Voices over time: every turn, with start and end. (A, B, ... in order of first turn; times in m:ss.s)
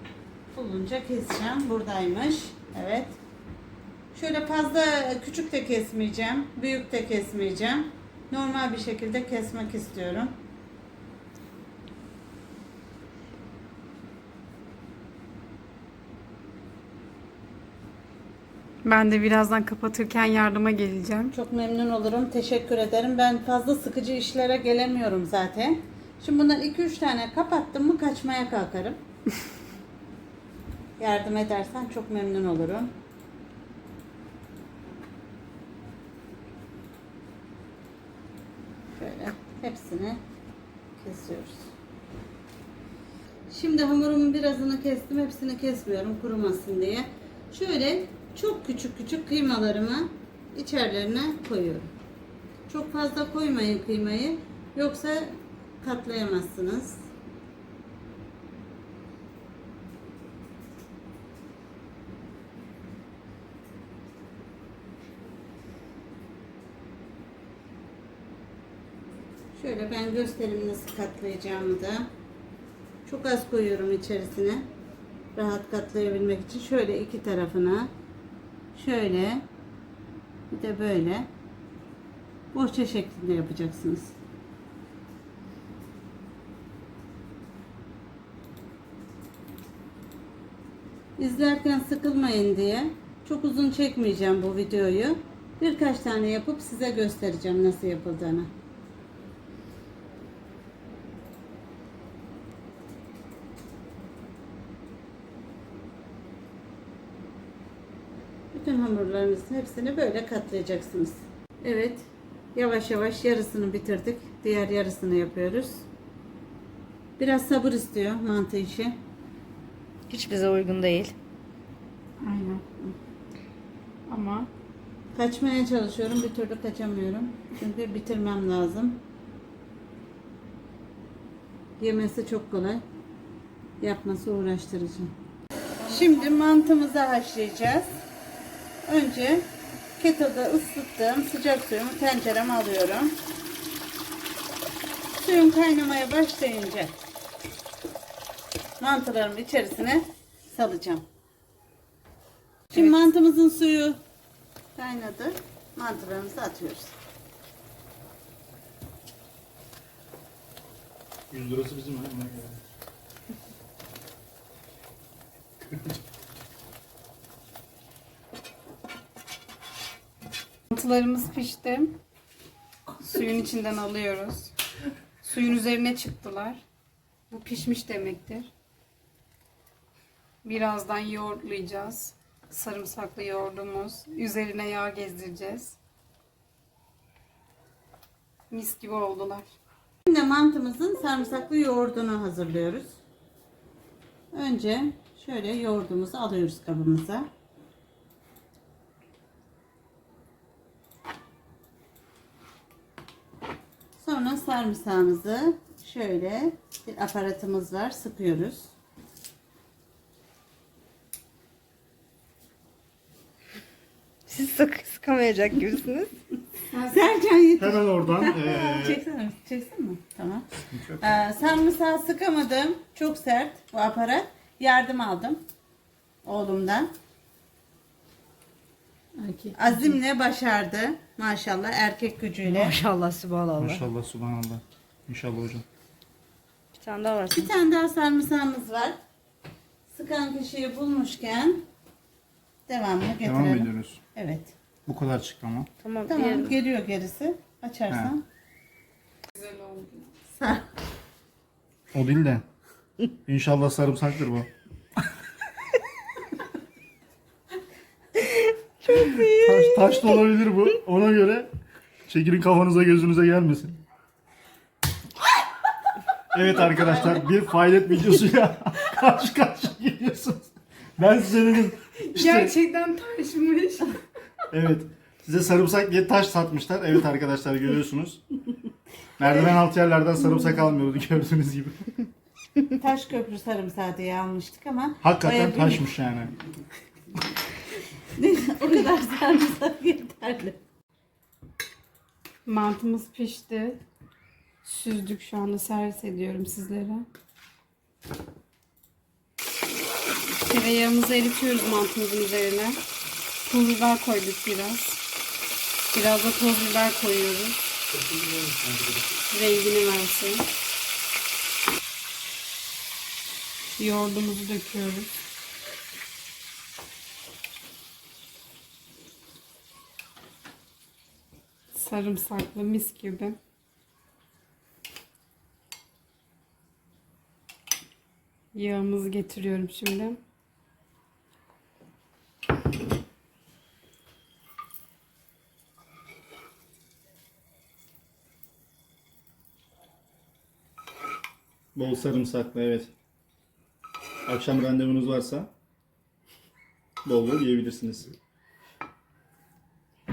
0:00.5-0:03.2 A
0:04.1-0:10.3 A
0:18.8-0:21.3 B
0:21.3-0:29.0 A
0:31.0-0:32.9 A
0:38.9-0:40.2 A
0:41.0-0:41.7 A
0:43.5-0:51.9 A
0:52.7-0:57.0 A
1:09.5-1:12.1 A
1:13.0-1:14.6 A
1:15.3-1:17.9 A
1:18.7-1:19.4 A
1:20.5-1:21.3 A
1:22.5-1:24.1 A
1:31.2-1:38.5 A
1:48.5-1:55.8 A
1:57.2-1:58.9 A
2:00.1-2:01.1 C
2:02.2-2:02.6 B
2:04.1-2:04.5 B
2:05.1-2:09.0 A
2:11.8-2:12.8 A
2:13.8-2:15.1 A
2:15.8-2:18.0 A
2:18.8-2:23.2 A
2:25.1-2:27.0 A
2:28.8-2:31.0 A
2:32.7-2:34.0 A
2:34.8-2:36.9 A
2:41.3-2:42.6 D
2:50.7-2:52.0 B
2:53.0-2:54.5 B
2:55.2-2:56.6 B
2:57.3-2:58.5 B
3:00.4-3:05.8 B
3:08.5-3:09.5 B
3:10.0-3:13.0 A
3:14.3-3:17.3 A
3:24.0-3:28.7 A
3:34.3-3:36.1 C
3:36.7-3:37.0 B
3:36.9-3:40.5 A
3:37.6-3:39.0 D
3:40.7-3:41.0 D
3:41.0-3:45.4 A
3:46.2-3:46.9 A
3:49.2-3:50.0 B
3:49.5-3:52.8 A
3:52.4-3:53.8 C
3:53.6-3:55.6 D
3:56.7-3:57.5 C
3:57.3-3:59.0 A
3:59.9-4:01.6 A
4:02.7-4:04.5 A
4:03.2-4:04.0 D
4:04.9-4:05.7 D
4:05.8-4:06.5 C
4:06.1-4:08.2 A
4:09.3-4:10.1 B
4:10.4-4:10.7 A
4:11.9-4:12.4 D
4:13.1-4:14.5 D
4:18.2-4:20.1 C
4:19.3-4:21.5 D
4:22.1-4:23.8 D
4:26.3-4:32.5 D
4:32.0-4:34.0 B
4:34.5-4:38.2 D
4:39.2-4:42.0 D
4:42.6-4:45.8 A
4:45.0-4:46.3 D
4:48.1-4:50.6 A
4:52.4-4:53.8 B
4:54.6-4:57.0 B
5:00.4-5:02.8 B
5:03.4-5:05.0 B
5:05.9-5:07.6 B
5:07.9-5:09.1 D
5:09.3-5:10.4 B
5:13.8-5:15.1 B
5:21.7-5:23.4 B
5:28.5-5:30.2 B
5:41.7-5:42.9 D
5:44.2-5:45.5 D
5:47.0-5:48.1 D